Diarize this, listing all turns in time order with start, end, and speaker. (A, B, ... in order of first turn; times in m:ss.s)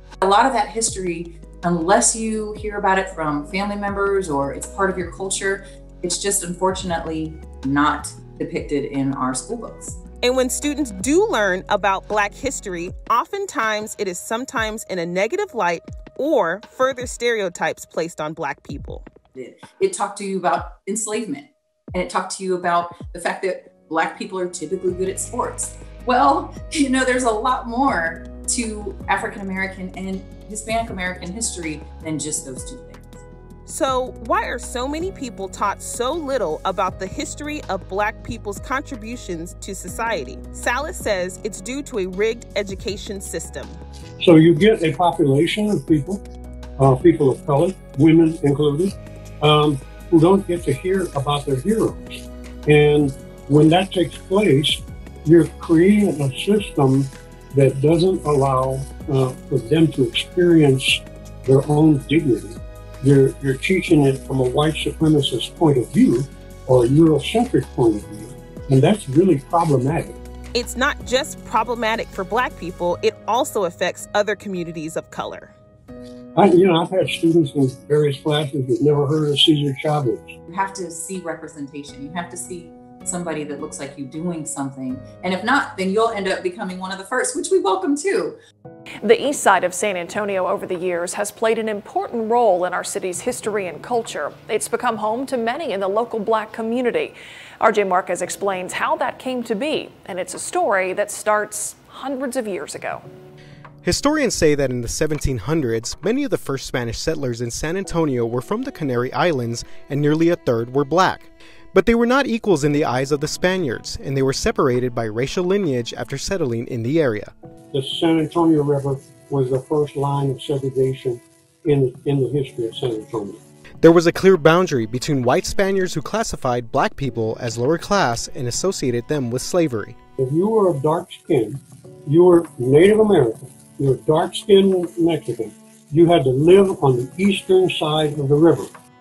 0:00.2-0:10.0 A
0:10.2-0:19.1 B
0:19.4-0:33.2 A
0:33.7-0:43.8 B
0:44.2-0:46.2 C
0:46.8-1:10.2 C
1:10.5-1:15.5 B
1:16.4-1:20.4 C
1:20.5-1:28.4 A
1:29.0-1:43.1 D
1:43.8-1:57.3 E
1:57.7-2:03.4 C
2:03.8-2:10.0 E
2:10.2-2:18.7 C